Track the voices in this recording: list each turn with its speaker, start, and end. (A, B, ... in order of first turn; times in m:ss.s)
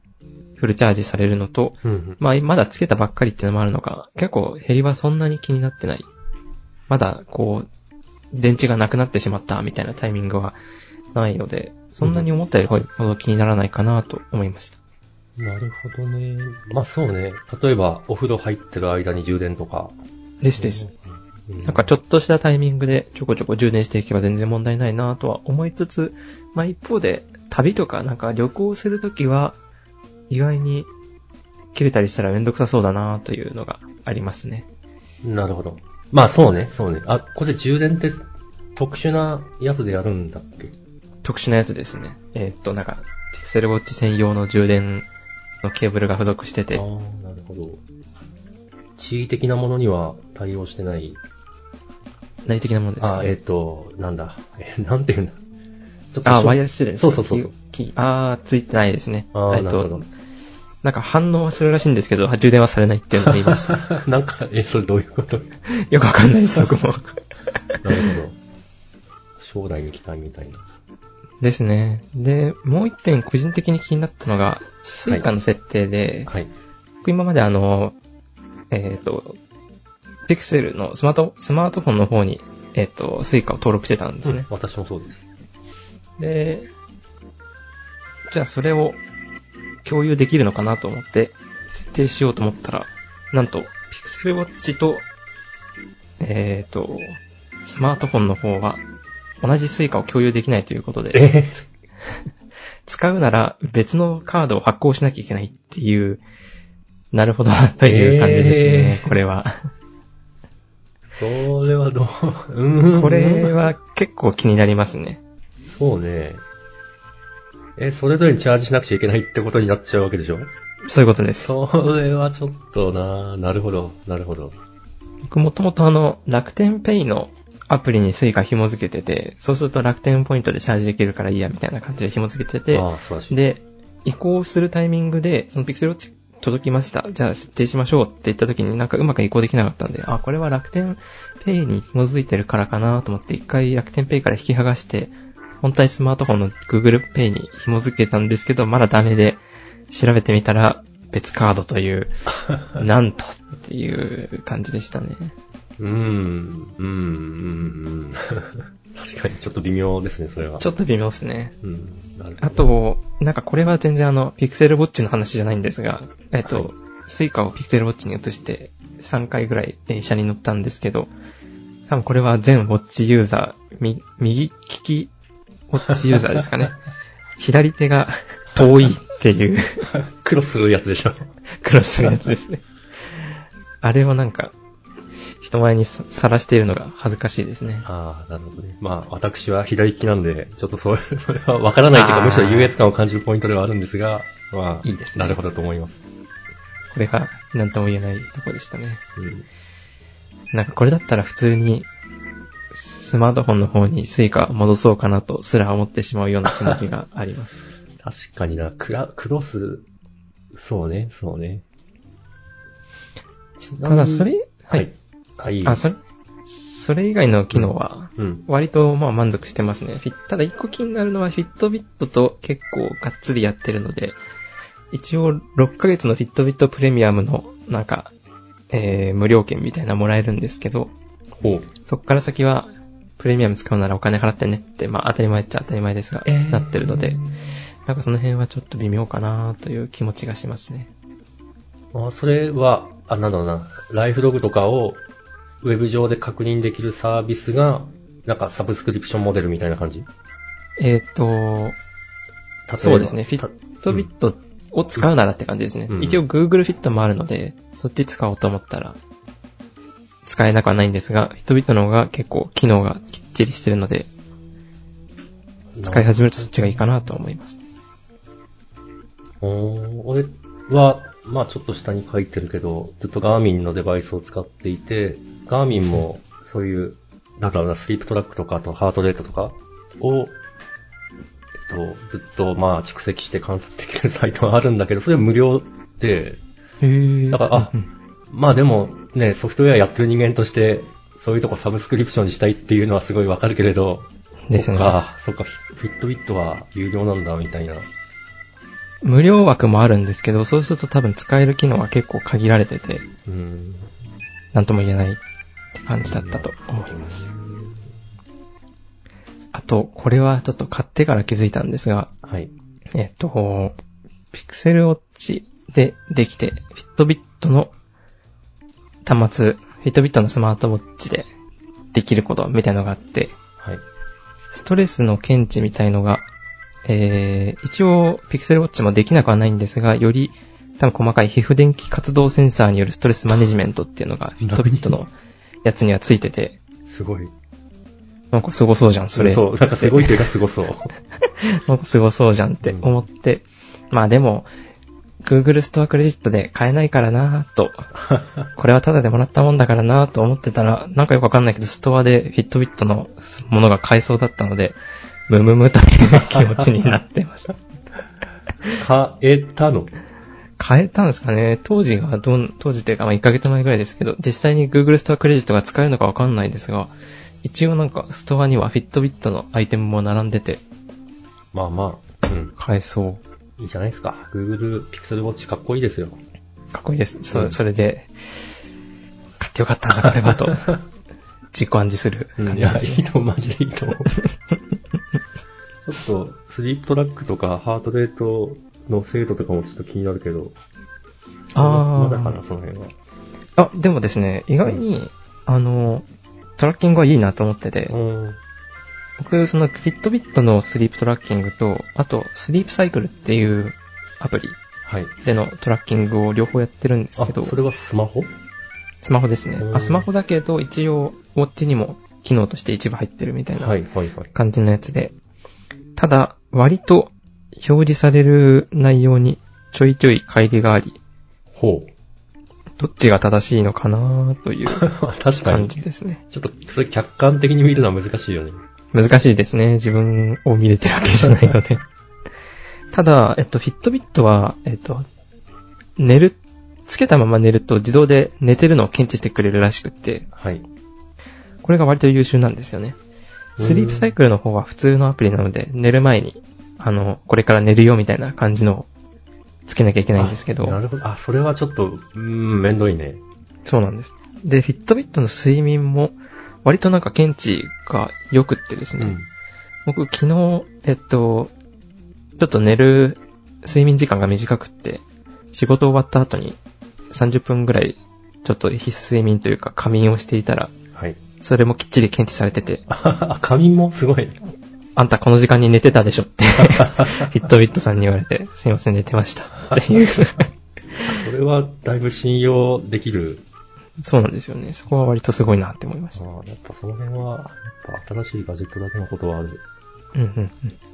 0:00.6-0:06.1 A
0:01.8-0:02.2 B
0:06.9-0:07.7 A
0:08.3-0:10.6 A
0:11.1-0:14.8 A
0:12.0-0:12.3 B
0:15.4-0:20.0 B
0:20.4-0:20.9 A
0:20.6-0:21.9 B
0:21.6-0:29.6 A
0:30.3-0:30.9 A
0:31.7-0:34.7 A
0:35.2-0:38.2 B
0:38.8-0:40.8 B
0:41.2-0:45.1 A
0:45.6-0:46.8 A
0:46.7-0:47.8 B
0:49.0-0:51.2 B
0:52.4-0:53.3 A
0:53.0-0:55.4 B
0:56.1-0:57.5 B
0:56.2-1:00.0 A
0:59.3-1:00.1 B
1:00.8-1:03.8 A
1:03.2-1:05.5 B
1:05.7-1:08.1 A
1:07.8-1:08.4 B
1:09.4-1:10.6 B
1:11.4-1:16.3 A
1:16.3-1:16.5 B
1:17.0-1:18.0 A
1:18.7-1:19.4 A
1:20.3-1:24.5 A
1:24.2-1:25.3 B
1:26.2-1:26.7 A
1:28.3-1:29.0 A
1:29.8-1:35.0 A
1:36.2-1:38.8 A
1:39.4-1:41.7 A
1:41.1-1:41.6 B
1:42.8-1:46.2 A
1:47.1-1:49.5 A
1:47.8-1:49.2 B
1:51.0-1:53.6 B
1:52.9-1:55.2 A
1:55.7-1:56.4 B
1:57.8-2:00.5 B
2:00.9-2:01.5 A
2:01.4-2:04.6 B
2:05.2-2:32.1 A
2:12.7-2:13.4 B
2:32.7-2:35.3 A
2:35.8-2:40.7 B
2:40.6-2:41.5 A
2:41.6-2:42.7 B
2:42.4-2:51.1 A
2:46.4-2:46.7 B
2:51.9-2:55.1 A
2:55.7-2:56.8 A
2:56.1-2:56.4 B
2:57.4-2:59.9 A
2:59.9-3:01.3 B
3:01.6-3:02.6 A
3:02.0-3:02.3 B
3:03.8-3:04.5 A
3:05.4-3:07.9 A
3:07.8-3:16.0 B
3:11.9-3:12.7 A
3:14.8-3:15.4 A
3:16.9-3:19.0 A
3:19.2-3:19.5 B
3:20.5-3:21.9 A
3:22.7-3:27.6 A
3:26.5-3:26.8 B
3:28.0-3:29.8 B
3:30.5-3:31.6 B
3:33.6-3:35.8 B
3:33.8-3:34.8 A
3:35.6-3:44.2 A
3:37.5-3:38.4 B
3:44.9-3:48.1 A
3:48.7-3:50.9 A
3:51.4-3:51.7 B
3:51.8-3:57.2 A
3:56.2-3:57.5 B
3:57.8-4:00.9 A
4:01.9-4:05.0 B
4:05.6-4:10.1 B
4:10.8-4:11.8 A
4:12.7-4:14.1 B
4:12.8-4:19.0 A
4:15.9-4:16.2 B
4:20.2-4:24.1 A
4:25.7-4:26.8 B
4:25.8-4:27.6 A
4:29.4-4:40.4 B
4:41.6-4:46.4 B
4:46.8-4:47.9 A
4:47.3-4:47.7 B
4:48.3-4:57.9 B
4:54.5-4:55.0 A
4:59.0-5:03.0 A
5:03.2-5:03.9 B
5:04.5-5:05.2 A
5:05.8-5:07.3 A
5:06.0-5:07.9 B
5:09.5-5:12.1 A
5:12.2-5:12.5 B
5:12.9-5:13.7 A
5:14.3-5:17.7 A
5:19.0-5:21.3 A
5:21.9-5:23.4 A
5:23.6-5:23.8 B
5:24.5-5:26.3 A
5:26.8-5:35.1 A
5:34.4-5:35.0 B
5:35.6-5:36.6 A
5:36.8-5:37.3 B
5:38.3-5:40.2 A
5:39.2-5:40.9 B
5:41.4-5:44.5 A
5:42.6-5:42.9 B
5:45.2-5:47.9 A
5:48.0-5:48.4 B
5:48.5-5:54.8 A
5:55.3-5:57.5 A
5:56.2-5:56.6 B
5:58.8-5:59.9 B
6:00.6-6:06.9 A
6:07.4-6:10.6 A
6:11.5-6:12.5 B
6:12.6-6:13.2 A
6:13.6-6:16.2 B
6:16.7-6:18.5 A
6:17.3-6:17.6 B
6:19.4-6:20.7 A
6:20.0-6:20.8 B
6:21.5-6:23.0 A
6:22.4-6:24.1 B
6:25.8-6:30.5 B
6:31.5-6:32.9 B
6:31.5-6:32.4 A
6:33.6-6:36.0 A
6:36.6-6:38.0 A
6:37.9-6:38.4 B
6:39.2-6:44.6 A
6:44.8-6:45.1 B
6:45.2-6:47.5 A
6:47.2-6:48.3 B
6:49.0-6:53.8 A
6:49.6-6:50.1 B
6:53.6-6:54.3 B
6:54.3-6:55.1 A
6:56.0-7:01.0 A
7:01.5-7:01.9 B
7:02.8-7:04.9 A
7:04.7-7:05.8 B
7:05.4-7:06.2 A
7:06.3-7:08.6 B
7:08.9-7:11.8 A
7:12.9-7:15.0 A
7:16.0-7:20.3 A
7:20.3-7:20.6 B
7:21.6-7:23.0 A
7:23.6-7:24.1 B
7:23.6-7:28.9 A
7:29.7-7:30.8 A
7:30.2-7:33.2 B
7:33.6-7:39.2 A
7:39.0-7:39.3 B
7:39.8-7:41.5 A
7:42.4-7:46.6 A
7:47.1-7:50.7 A
7:50.9-7:51.2 B
7:51.4-7:52.8 A
7:52.9-7:54.4 B
7:55.0-8:01.0 A
7:56.6-7:57.3 B
8:01.1-8:03.4 B
8:04.0-8:06.2 A
8:06.1-8:09.6 B
8:10.1-8:10.8 A